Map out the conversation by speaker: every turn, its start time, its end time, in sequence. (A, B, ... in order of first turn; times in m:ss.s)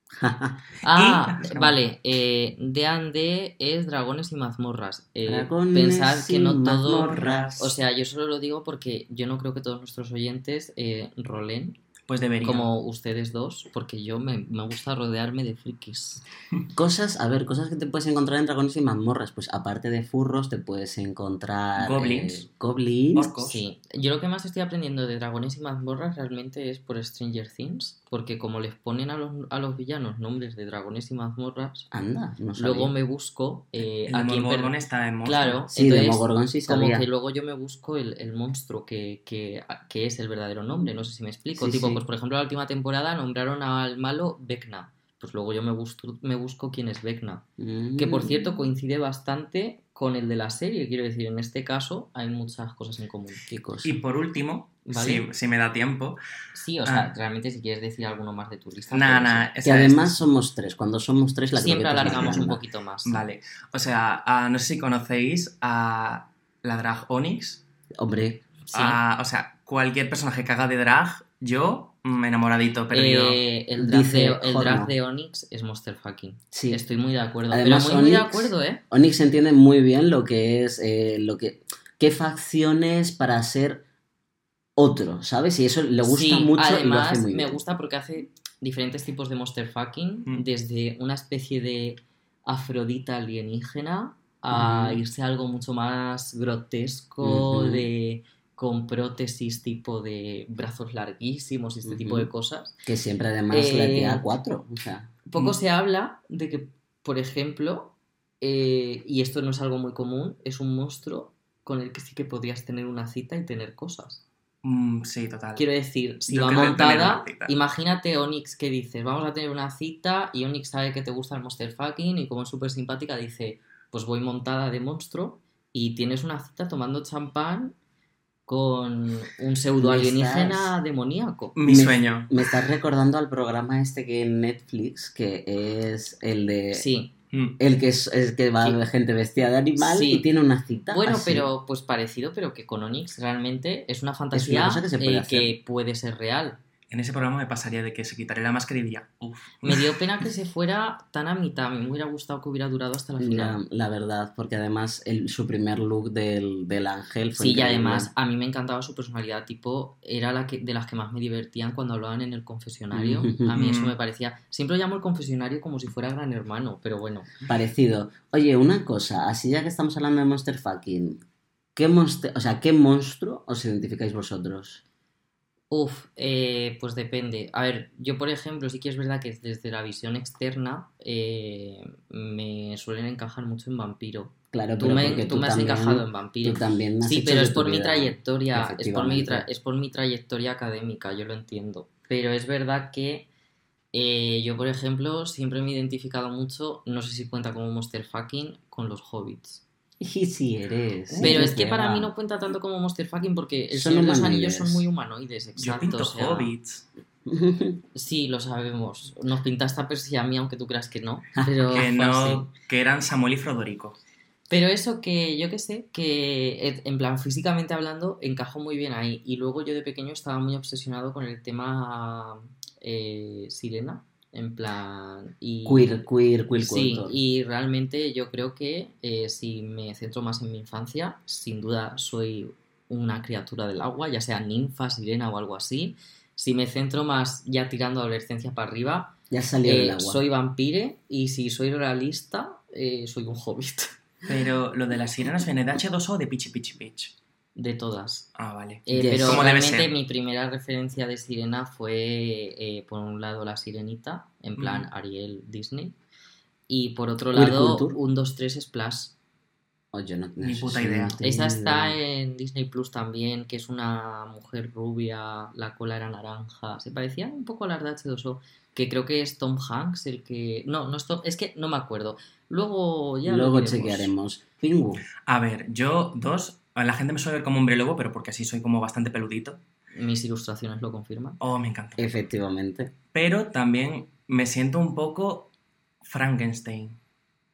0:00.2-0:00.6 A
0:00.8-0:11.8 B
0:00.8-0:01.8 C
0:05.2-0:07.6 A
0:07.0-0:07.7 C
0:12.1-0:12.7 C
0:12.4-0:16.2 B
0:16.7-0:23.3 A
0:21.8-0:22.4 C
0:23.1-0:23.6 C
0:23.4-0:31.9 B
0:31.9-0:32.9 A
0:32.6-0:47.4 B
0:34.1-0:35.6 C
0:35.7-0:37.1 A
0:41.6-0:42.0 A
0:47.6-0:48.5 A
0:48.0-0:53.4 B
0:53.5-0:54.0 A
0:53.8-0:56.2 C
0:54.8-0:55.2 B
0:56.5-0:59.5 B
0:56.8-0:57.1 C
0:58.9-1:00.1 C
0:59.6-1:02.6 A
1:01.5-1:03.2 B
1:03.0-1:07.6 C
1:08.0-1:08.4 A
1:08.6-1:09.0 B
1:08.7-1:13.4 C
1:12.9-1:18.8 B
1:13.8-1:14.9 A
1:16.5-1:16.8 A
1:17.5-1:23.8 A
1:24.8-1:27.6 A
1:26.0-1:42.8 B
1:34.5-1:35.0 A
1:37.2-1:37.8 A
1:41.8-1:42.3 A
1:42.8-1:45.1 A
1:43.5-1:44.2 B
1:45.2-1:54.2 B
1:54.6-1:55.6 C
1:55.6-2:07.8 B
1:56.3-1:57.5 C
2:08.5-2:11.6 B
2:09.8-2:10.8 A
2:11.5-2:12.4 C
2:11.6-2:16.8 A
2:16.7-2:17.1 B
2:17.3-2:17.6 C
2:17.6-2:21.5 A
2:19.8-2:20.2 B
2:20.9-2:26.6 B
2:24.3-2:25.5 A
2:26.9-2:30.2 C
2:29.6-2:33.6 B
2:33.2-2:38.1 A
2:37.3-2:47.3 B
2:42.9-2:43.6 A
2:43.5-2:44.0 C
2:47.4-2:51.2 A
2:51.8-2:54.8 A
2:55.7-3:13.3 B
3:04.5-3:09.4 A
3:13.9-3:19.6 B
3:20.0-3:22.1 A
3:21.1-3:21.5 C
3:21.2-3:26.5 B
3:23.7-3:24.9 A
3:25.6-3:26.8 C
3:27.2-3:27.8 A
3:27.9-3:32.5 B
3:31.4-3:31.7 A
3:31.7-3:34.0 C
3:34.5-3:45.9 B
3:45.6-3:47.2 A
3:46.6-4:03.9 B
3:59.3-4:00.2 A
4:04.2-4:07.1 C
4:07.6-4:08.3 B
4:08.4-4:09.9 C
4:08.8-4:16.0 B
4:08.9-4:09.4 A
4:14.6-4:14.9 C
4:16.7-4:19.2 B
4:17.3-4:18.0 A
4:19.9-4:22.0 A
4:20.4-4:21.2 C
4:21.2-4:34.1 B
4:33.2-4:35.0 A
4:35.2-4:39.6 C
4:40.0-4:41.4 B
4:41.4-4:42.1 C
4:42.0-4:43.0 A
4:43.1-4:47.0 C